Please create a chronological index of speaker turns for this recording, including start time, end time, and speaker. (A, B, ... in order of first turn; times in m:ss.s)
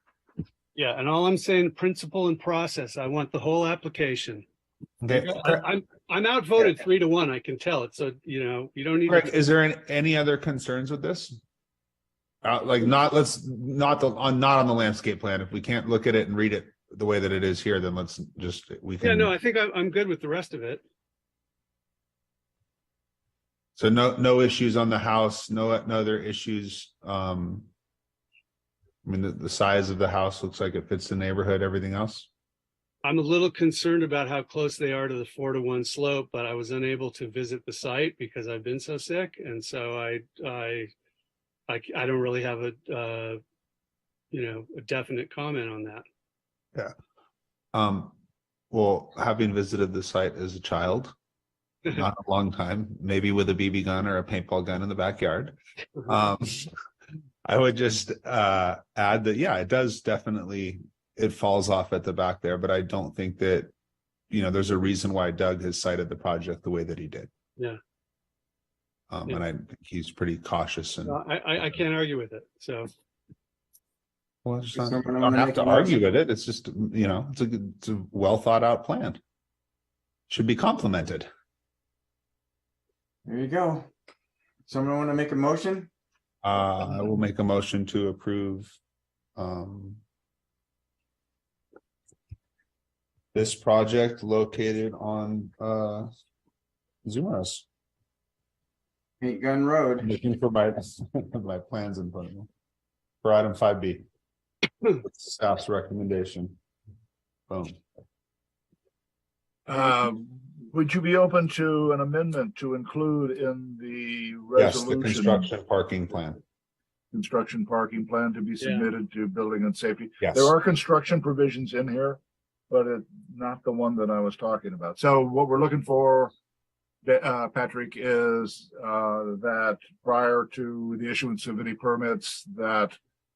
0:00.8-0:04.4 A
0:05.0-0:05.6 B
0:05.1-0:09.3 A
0:09.1-0:11.4 B
0:12.4-0:19.3 B
0:19.0-0:20.8 A
0:23.8-0:27.7 B
0:29.0-0:32.3 B
0:33.0-0:40.9 A
0:41.7-0:43.4 A
0:44.3-0:46.0 A
0:47.7-0:48.2 B
0:48.7-0:51.1 B
0:51.9-0:56.7 B
0:57.4-1:03.7 B
1:04.3-1:07.3 B
1:09.1-1:11.8 B
1:11.0-1:12.9 A
1:14.4-1:19.2 B
1:14.8-1:16.0 C
1:20.3-1:21.3 B
1:23.3-1:23.9 C
1:24.7-1:25.9 C
1:26.4-1:28.8 B
1:29.4-1:30.0 B
1:33.3-1:36.1 B
1:37.0-1:37.6 B
1:39.2-1:40.1 C
1:40.0-1:42.5 B
1:43.2-1:44.0 B
1:45.0-1:46.6 B
1:47.5-1:47.8 B
1:49.7-1:55.5 D
1:54.6-1:56.4 B
1:57.1-2:06.3 D
1:58.6-1:58.9 A
2:00.2-2:00.5 B
2:07.0-2:13.0 D